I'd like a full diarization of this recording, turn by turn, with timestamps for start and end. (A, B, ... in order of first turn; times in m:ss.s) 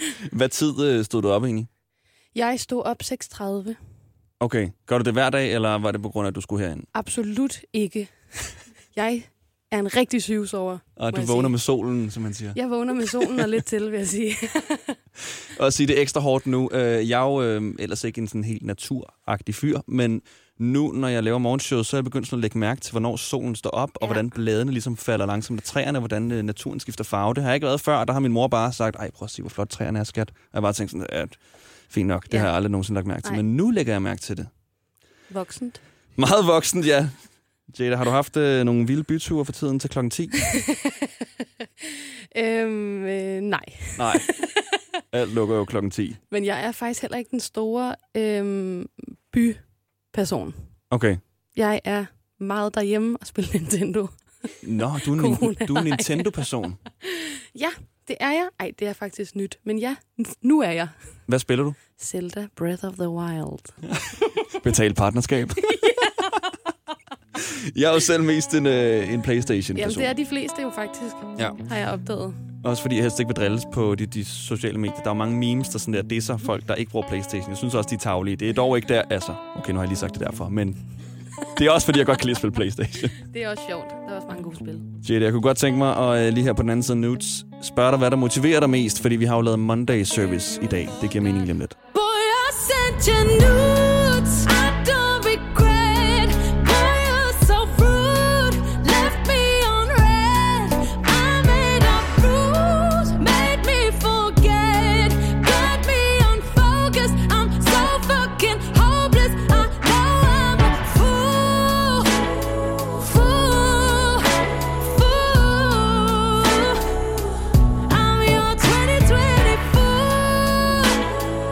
0:00.2-0:01.7 A
0:02.3-0:03.8 B
0:04.4-0:06.9 A
0:06.9-0:11.6 B
0:11.0-0:13.4 A
0:12.5-0:15.0 B
0:15.5-0:31.4 A
0:31.9-0:34.5 A
0:35.3-0:35.8 B
0:36.2-0:37.1 A
0:37.7-0:40.4 A
0:40.5-0:40.9 B
0:41.8-0:44.7 B
0:44.0-0:44.3 A
0:45.1-0:46.2 A
0:46.3-0:50.6 B
0:50.9-0:51.2 A
0:51.5-0:56.4 B
0:54.6-0:56.8 A
0:57.0-1:00.9 B
1:01.3-1:01.8 A
1:02.0-1:03.8 B
1:04.0-1:06.0 A
1:07.4-1:10.1 A
1:09.8-1:12.4 B
1:12.6-1:20.8 A
1:21.5-1:23.1 A
1:23.2-1:24.9 B
1:25.0-1:31.8 A
1:31.9-1:52.3 C
1:52.8-1:57.1 C
1:57.9-2:01.1 C